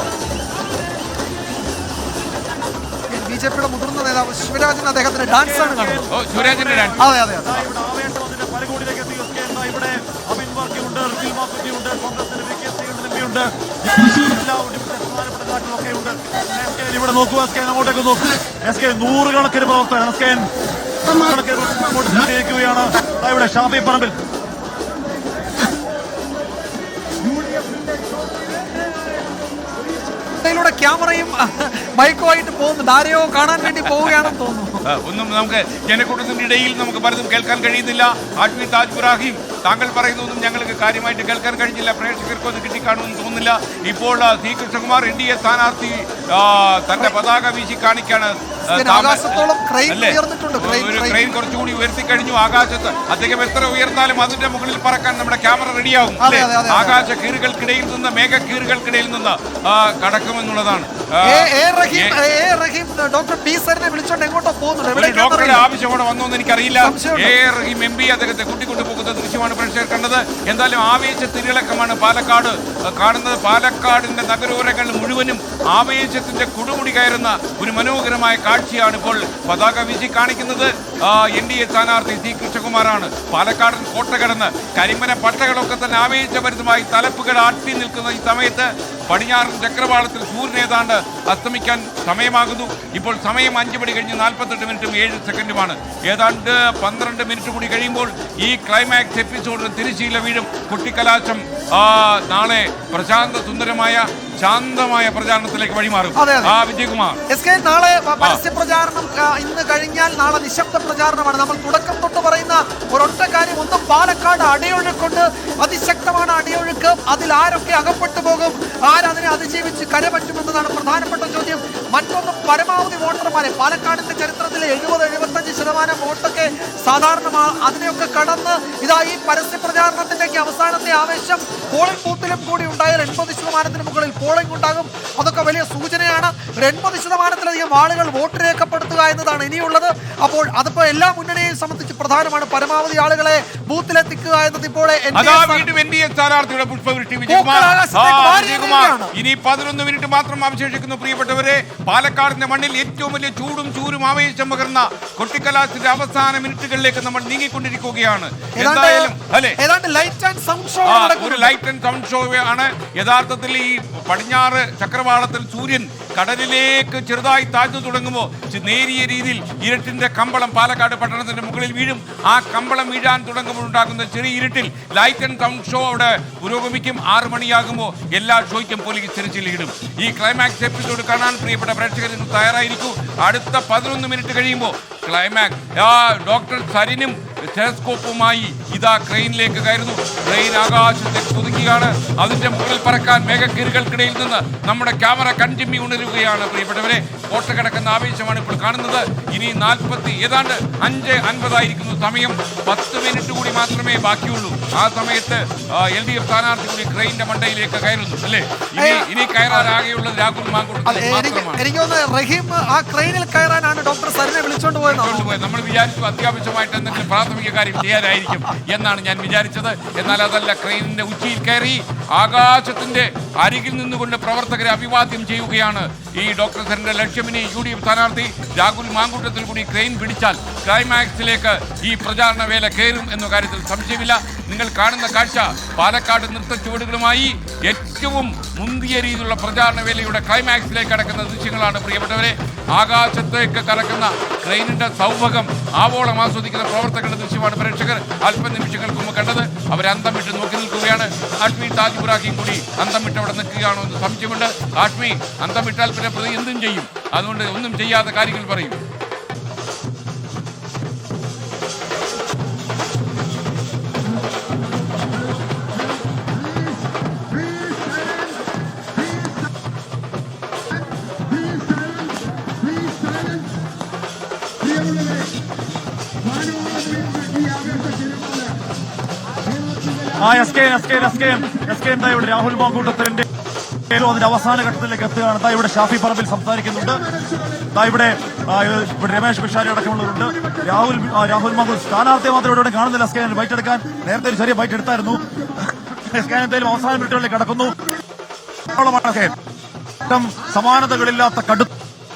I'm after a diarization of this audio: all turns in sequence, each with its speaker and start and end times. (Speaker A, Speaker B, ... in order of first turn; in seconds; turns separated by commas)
Speaker A: 3.1-6.1, Speaker B: 5.3-20.5, Speaker C: 6.1-7.0, Speaker A: 7.0-7.6, Speaker B: 21.1-24.1, Speaker A: 30.3-34.8, Speaker C: 33.7-34.3, Speaker C: 34.9-62.2, Speaker A: 48.7-51.2, Speaker A: 56.2-57.0, Speaker A: 61.3-65.7, Speaker C: 64.9-107.2, Speaker A: 66.8-67.4, Speaker A: 106.2-106.6, Speaker A: 107.3-145.7, Speaker C: 145.1-159.6, Speaker A: 147.3-149.1, Speaker A: 158.6-161.5, Speaker C: 160.8-211.6, Speaker A: 208.8-209.7, Speaker A: 210.9-215.3, Speaker C: 214.8-258.8, Speaker B: 280.1-283.3, Speaker B: 283.9-287.0, Speaker B: 287.6-297.8, Speaker B: 298.7-299.4, Speaker B: 300.0-301.7